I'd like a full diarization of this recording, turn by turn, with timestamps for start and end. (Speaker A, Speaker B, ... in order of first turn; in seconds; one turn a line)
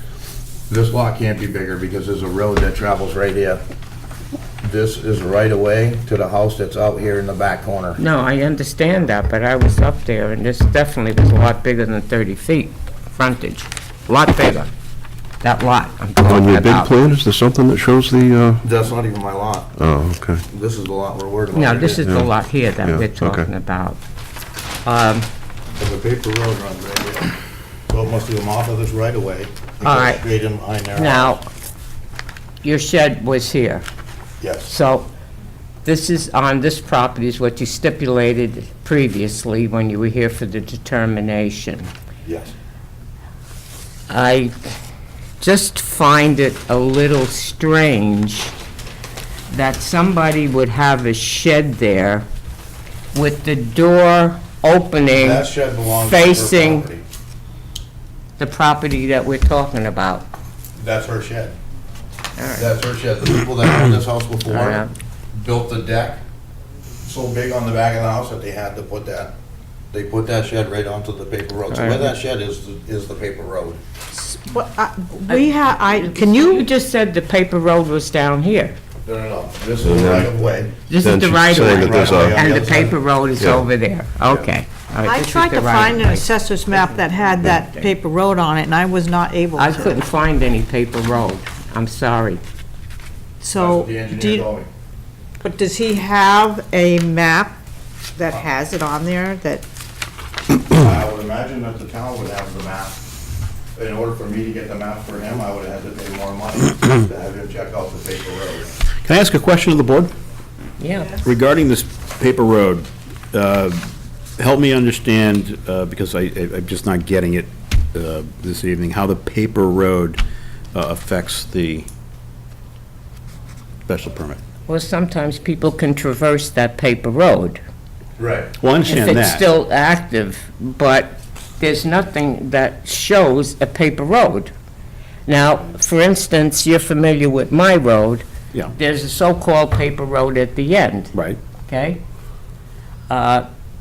Speaker A: 0.7-3.6
Speaker A: 4.6-8.0
Speaker B: 8.0-14.7
Speaker B: 15.4-17.0
Speaker C: 16.3-18.6
Speaker A: 18.6-19.7
Speaker C: 19.8-20.4
Speaker A: 20.5-22.0
Speaker B: 21.5-24.0
Speaker C: 22.1-22.3
Speaker C: 22.8-23.5
Speaker B: 24.9-25.3
Speaker A: 25.8-27.3
Speaker A: 27.9-31.4
Speaker B: 29.8-30.2
Speaker B: 30.9-31.5
Speaker B: 32.6-33.9
Speaker A: 34.4-34.7
Speaker B: 34.6-35.1
Speaker B: 35.9-41.9
Speaker A: 42.2-42.5
Speaker B: 44.1-44.7
Speaker B: 45.4-48.5
Speaker B: 49.5-52.3
Speaker B: 53.1-55.5
Speaker A: 55.1-57.0
Speaker B: 56.0-56.9
Speaker B: 58.4-60.3
Speaker A: 60.8-61.5
Speaker B: 62.4-62.7
Speaker A: 62.5-64.8
Speaker B: 64.5-64.9
Speaker A: 65.3-66.2
Speaker A: 67.0-69.3
Speaker A: 69.9-73.8
Speaker B: 71.7-72.1
Speaker D: 74.1-76.7
Speaker B: 75.3-78.8
Speaker A: 79.0-80.7
Speaker C: 79.8-80.3
Speaker B: 80.9-87.9
Speaker C: 81.0-82.4
Speaker A: 81.7-83.0
Speaker D: 85.0-89.9
Speaker B: 89.6-92.4
Speaker D: 93.4-94.5
Speaker A: 93.6-94.7
Speaker D: 95.4-97.6
Speaker D: 98.2-99.6
Speaker A: 100.7-103.0
Speaker A: 103.8-108.8
Speaker E: 109.0-110.1
Speaker B: 110.8-111.2
Speaker E: 111.2-113.9
Speaker E: 114.4-120.2
Speaker E: 120.7-121.9
Speaker E: 123.9-124.4
Speaker B: 124.7-127.6
Speaker A: 128.2-128.5
Speaker E: 128.6-129.4
Speaker B: 128.9-134.5
Speaker B: 135.3-141.1
Speaker B: 141.7-142.0
Speaker B: 143.1-143.5